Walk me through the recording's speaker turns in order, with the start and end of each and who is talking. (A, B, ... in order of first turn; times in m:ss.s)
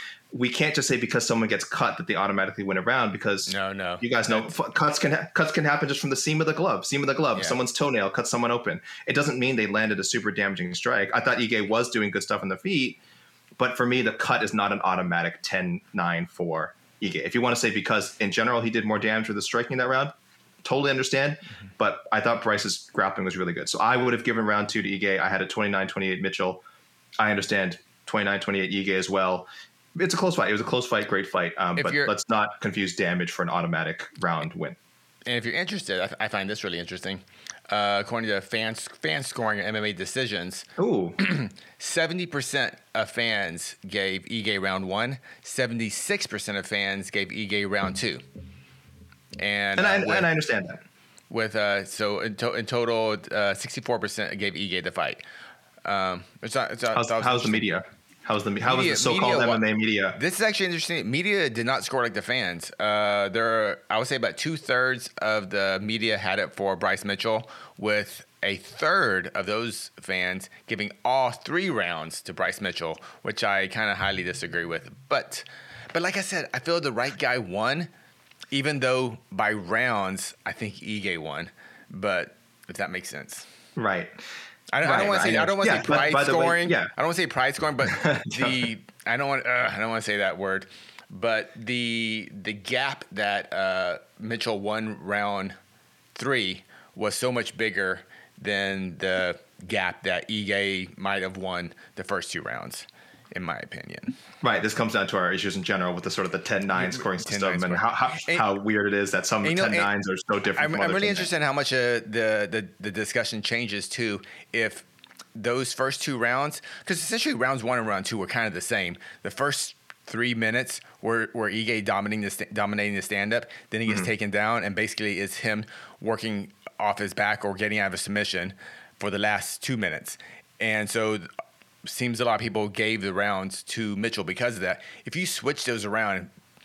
0:00.3-0:13.0 A
0:03.5-0:04.5 B
0:13.6-0:26.6 A
0:27.2-0:34.8 A
0:31.8-0:32.1 B
0:35.3-0:40.7 B
0:40.8-0:41.2 A
0:41.2-0:48.2 B
0:49.4-0:50.3 B
0:49.8-0:50.8 A
0:51.3-0:55.2 B
0:55.8-0:57.6 B
0:56.9-1:00.2 A
0:58.6-0:59.6 B
1:00.2-1:17.9 B
1:18.5-1:23.5 B
1:23.8-1:24.2 A
1:24.7-1:35.6 B
1:24.8-1:26.9 A
1:27.9-1:28.7 A
1:36.2-1:44.1 B
1:44.4-1:51.3 A
1:46.8-1:48.4 B
1:49.4-1:49.9 B
1:50.6-2:11.3 B
2:11.8-2:16.3 B